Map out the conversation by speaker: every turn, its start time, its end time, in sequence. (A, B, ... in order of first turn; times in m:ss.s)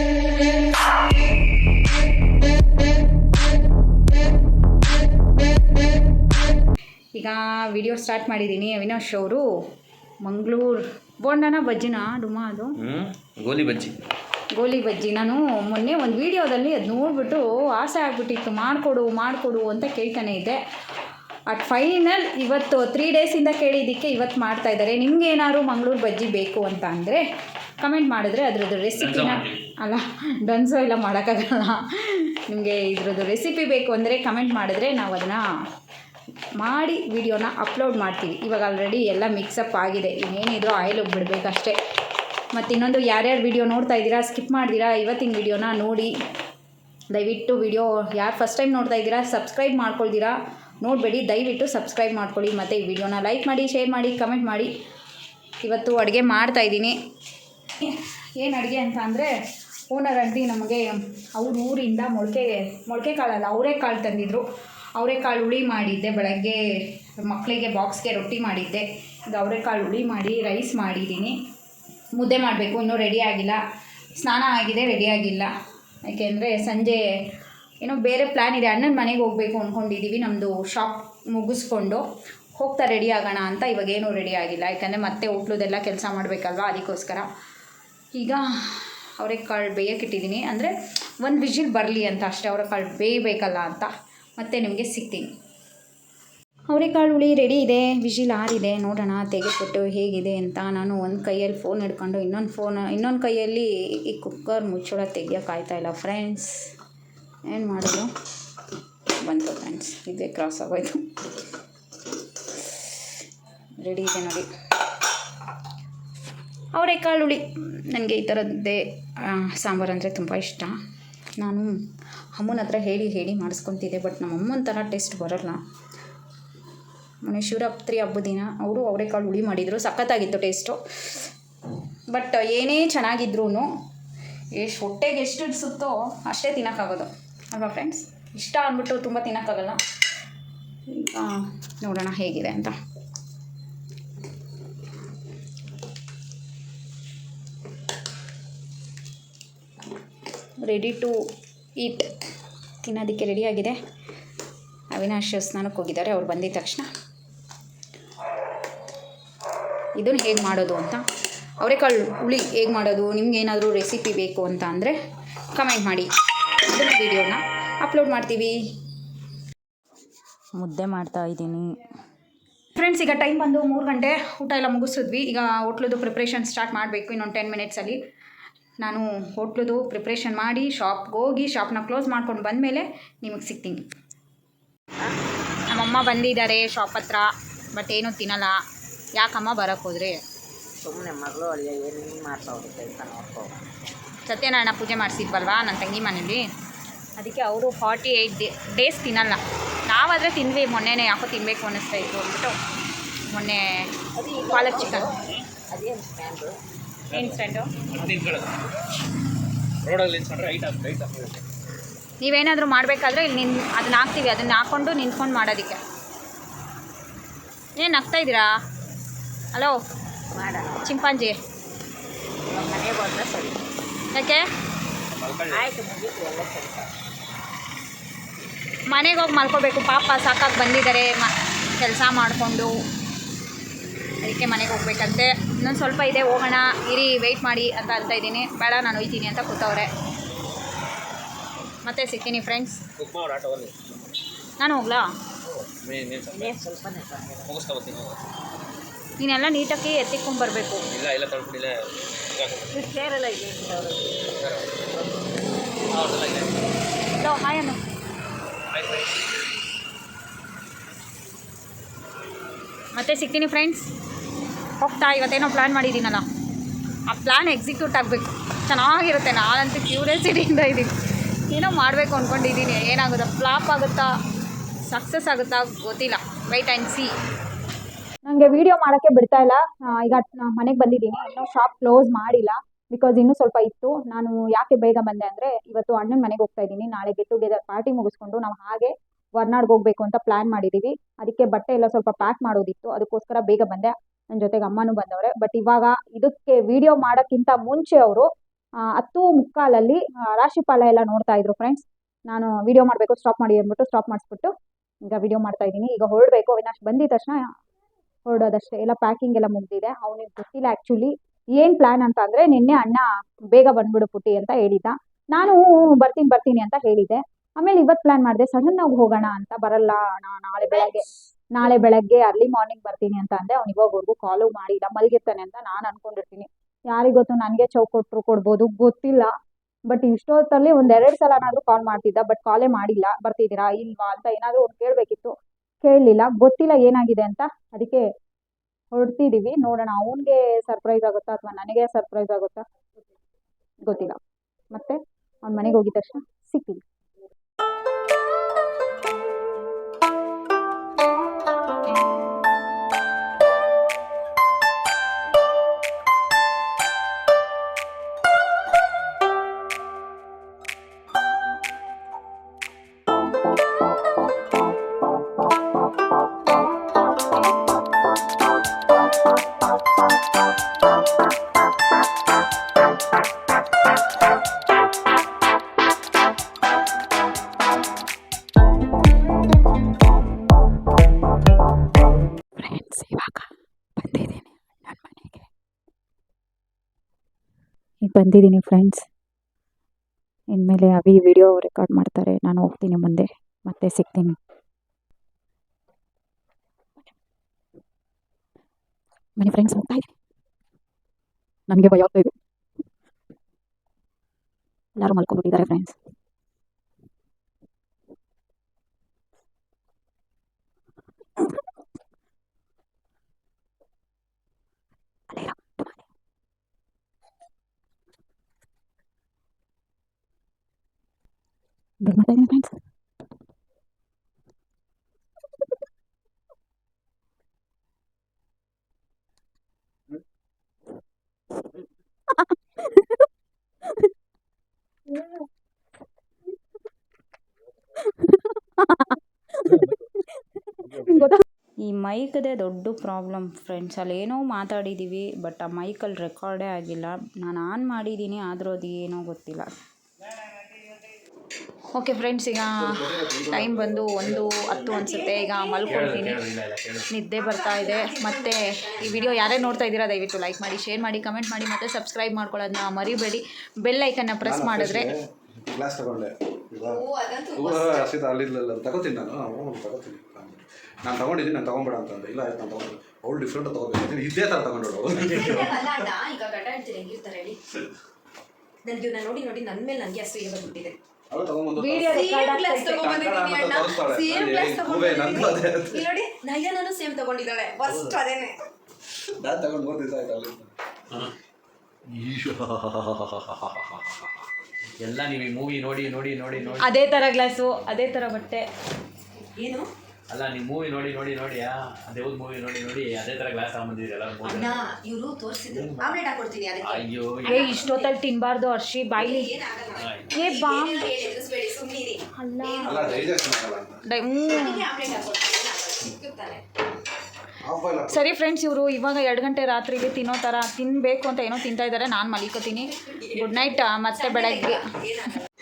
0:07.2-0:09.4 A
0:10.2-0:12.8 A
0:12.8-0:14.0 B
0:14.5-0:20.6 A
0:21.5-0:27.2 A
0:27.8-0:35.4 A
0:29.0-0:29.6 B
0:36.6-0:41.8 A
0:42.5-0:46.1 A
0:47.1-0:54.7 A
0:55.6-0:57.0 A
0:57.8-0:59.3 A
0:59.9-1:04.4 A
1:05.0-1:11.4 A
1:12.2-1:13.6 A
1:14.2-1:15.5 A
1:16.1-1:17.0 A
1:17.8-1:22.0 A
1:22.6-1:27.3 A
1:28.1-1:35.3 A
1:36.7-1:46.7 A
1:47.5-1:48.1 A
1:49.2-1:51.0 A
1:53.8-1:54.5 A
1:56.7-2:00.8 A
2:01.4-2:01.8 A
2:02.4-2:05.6 A
2:07.2-2:11.3 A
2:12.1-2:13.7 A
2:14.6-2:19.8 A
2:20.9-2:22.8 A
2:30.6-2:31.2 A
2:31.8-2:32.1 A
2:32.8-2:33.8 A
2:34.9-2:36.9 A
2:40.0-2:41.0 A
2:41.6-2:45.0 A
2:45.6-2:46.1 A
2:46.6-2:48.6 A
2:50.6-2:51.7 A
2:52.8-2:58.0 A
2:58.8-3:03.8 A
3:05.7-3:08.6 A
3:09.2-3:10.2 A
3:10.8-3:13.6 C
3:14.3-3:16.4 A
3:17.2-3:22.6 A
3:23.3-3:23.9 A
3:24.2-3:25.1 D
3:24.4-3:25.1 A
3:25.7-3:26.6 C
3:27.1-3:27.7 A
3:27.1-3:28.6 B
3:29.8-3:31.4 B
3:32.2-3:35.8 A
3:37.8-3:38.5 A
3:40.3-3:41.0 C
3:40.8-3:41.4 A
3:42.5-3:43.6 C
3:44.1-3:44.5 A
3:45.1-3:45.7 B
3:45.5-3:46.9 C
3:48.9-3:52.8 A
3:54.2-3:59.9 A
4:01.8-4:02.8 A
4:03.0-4:04.0 B
4:04.6-4:05.1 A
4:05.5-4:06.8 B
4:06.3-4:07.6 C
4:07.5-4:08.2 B
4:09.2-4:10.8 A
4:10.9-4:11.8 B
4:12.3-4:12.8 B
4:12.7-4:14.2 C
4:14.4-4:14.8 B
4:15.9-4:16.5 B
4:17.2-4:17.8 A
4:18.7-4:19.3 B
4:22.9-4:23.9 A
4:24.8-4:26.3 A
4:27.1-4:34.1 A
4:34.9-4:37.1 A
4:38.3-4:58.3 A
4:58.9-5:04.5 A
5:05.1-5:07.4 A
5:08.3-5:29.3 A
5:29.9-5:38.1 A
5:38.9-5:42.6 A
5:43.8-5:44.2 A
5:44.7-5:46.8 A
6:22.6-6:25.5 A
6:28.0-6:29.0 A
6:30.5-6:34.4 A
6:39.4-6:40.1 A
6:41.7-6:42.3 A
6:45.0-6:46.0 A
6:55.3-6:56.0 A
7:02.0-7:02.8 A
7:18.8-7:19.1 A
7:19.7-7:20.0 E
7:20.8-7:21.3 E
7:21.1-7:29.7 A
7:31.9-7:36.4 A
7:32.8-7:34.9 E
7:34.7-7:36.1 D
7:35.8-7:37.1 B
7:37.1-7:45.1 A
7:37.4-7:39.8 D
7:44.4-7:56.0 E
7:46.8-7:48.1 D
7:55.2-7:57.6 D
7:58.8-8:01.0 D
8:01.3-8:02.4 E
8:01.8-8:03.1 A
8:02.1-8:08.6 D
8:02.9-8:06.1 E
8:07.8-8:08.2 B
8:09.4-8:10.7 E
8:12.1-8:14.0 E
8:15.0-8:16.9 B
8:16.8-8:18.6 A
8:19.4-8:19.9 D
8:20.3-8:24.9 B
8:24.4-8:28.1 D
8:25.7-8:26.2 B
8:26.8-8:27.9 B
8:27.4-8:29.5 A
8:29.2-8:33.2 D
8:30.0-8:30.4 B
8:30.3-8:31.1 A
8:32.4-8:33.2 A
8:32.8-8:34.0 E
8:34.1-8:34.9 A
8:34.5-8:36.6 D
8:37.6-8:38.3 E
8:38.1-8:44.9 A
8:43.1-8:45.5 D